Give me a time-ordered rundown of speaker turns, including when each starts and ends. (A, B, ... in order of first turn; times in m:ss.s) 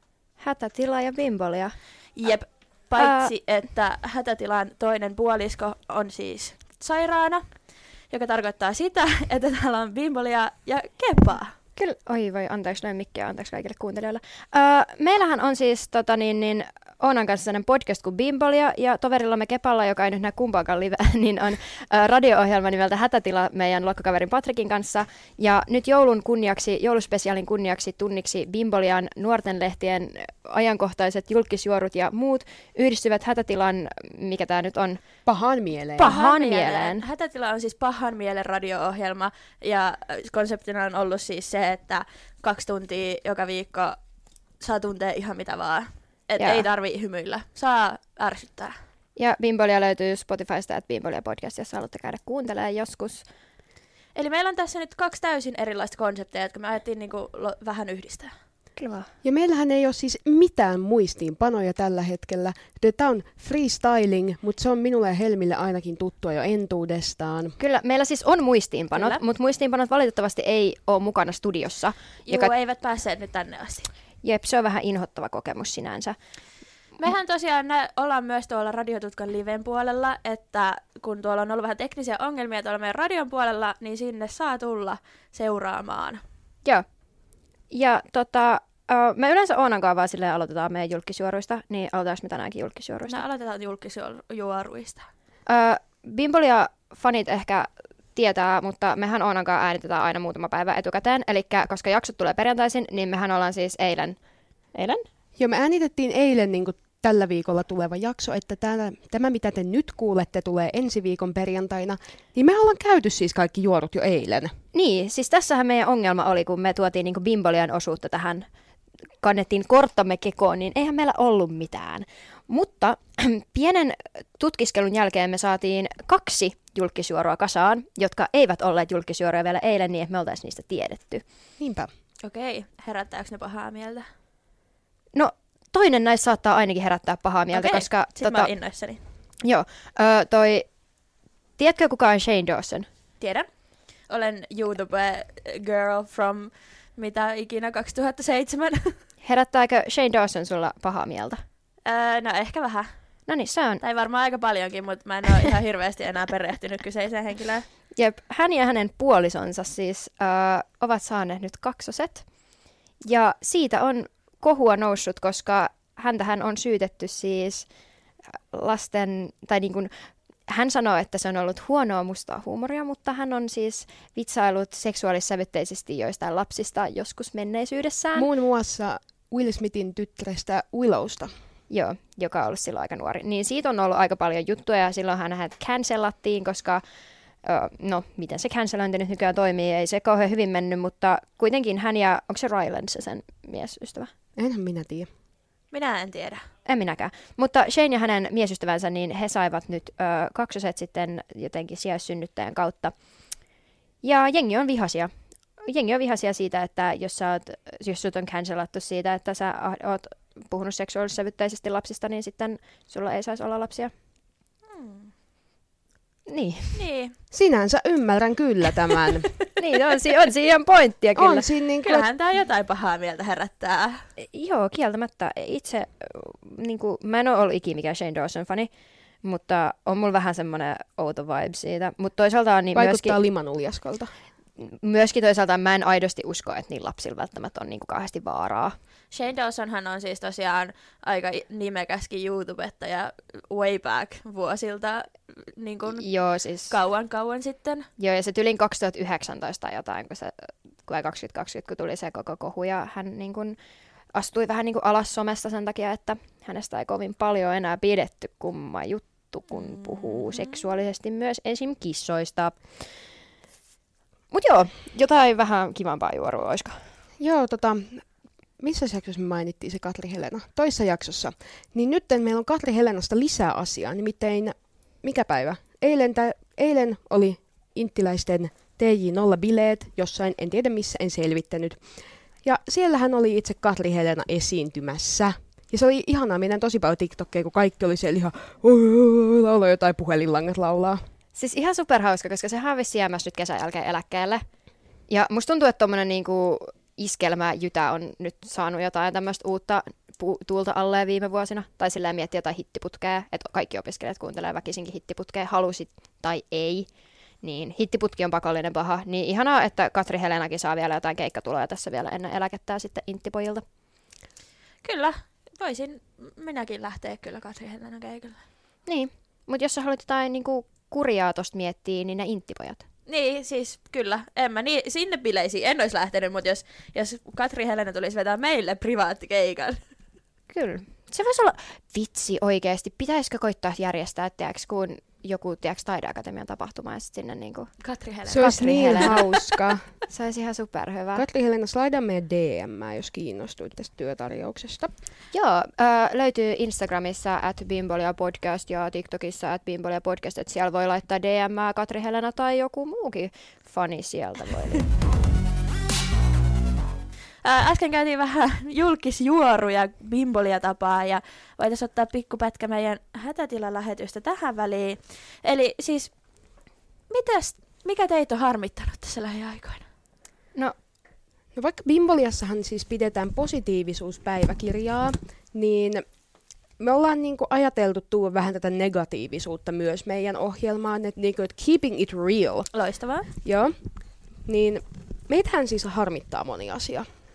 0:00.4-0:01.7 A
0:02.2-0:07.4 B
0:03.0-0:03.3 A
0:08.1-0:11.5 B
0:11.8-0:35.0 A
0:35.2-0:36.1 C
0:36.0-0:37.0 A
0:36.0-0:44.0 B
0:44.6-0:48.7 B
0:46.4-0:46.6 A
0:49.2-0:53.2 A
0:54.1-0:58.3 B
0:58.8-0:59.1 A
0:59.2-1:07.6 C
1:07.6-1:12.5 A
1:08.9-1:09.2 B
1:12.3-1:13.9 B
1:14.2-1:16.2 A
1:17.0-1:26.2 B
1:27.7-1:33.2 A
1:33.1-1:35.0 B
1:35.5-1:44.2 A
1:44.7-1:45.0 A
1:45.4-1:54.5 C
1:54.7-1:58.4 A
1:59.2-2:11.2 A
2:11.6-2:11.9 C
2:12.2-2:14.1 B
2:15.1-2:18.5 A
2:17.5-2:19.0 B
2:19.4-2:20.7 A
2:21.6-2:22.9 A
2:23.2-2:23.5 B
2:24.1-2:28.9 B
2:29.2-2:31.4 A
2:31.8-2:32.9 B
2:33.3-2:33.8 A
2:33.8-2:37.6 B
2:38.0-2:42.2 A
2:43.0-2:47.6 A
2:48.3-2:49.9 A
2:50.5-2:58.3 A
2:58.2-3:01.3 C
3:01.7-3:06.8 A
3:07.4-3:14.1 A
3:14.4-3:15.1 C
3:15.7-3:16.4 B
3:16.6-3:22.9 A
3:24.0-3:25.1 A
3:25.6-3:33.9 A
3:34.7-3:35.1 B
3:36.3-3:36.8 A
3:36.7-3:37.1 B
3:37.3-3:39.3 C
3:39.6-3:41.5 A
3:41.2-3:42.0 C
3:41.8-3:44.0 B
3:44.2-3:48.7 A
3:49.2-3:53.2 A
3:52.7-3:54.1 C
3:54.6-3:58.8 A
3:59.1-4:06.0 B
4:06.0-4:06.7 A
4:06.7-4:07.9 B
4:08.0-4:13.6 A
4:14.1-4:22.6 A
4:19.5-4:20.5 B
4:24.3-4:26.8 A
4:27.2-4:28.0 C
4:28.6-4:41.8 C
4:42.4-4:51.0 C
4:51.3-4:54.4 A
4:55.1-5:06.9 A
5:07.4-5:13.6 A
5:14.8-5:18.4 B
5:18.8-5:22.8 A
5:23.1-5:29.8 B
5:30.5-5:37.7 A
5:37.8-5:39.3 B
5:38.3-5:39.4 A
5:38.3-5:39.8 C
5:40.1-5:41.2 A
5:41.1-5:44.9 C
5:45.3-5:54.8 A
5:57.4-6:06.1 B
6:07.1-6:09.9 B
6:11.5-6:16.0 C
6:16.8-6:22.7 C
6:22.7-6:23.3 B
6:23.4-6:23.8 C
6:24.4-6:27.0 C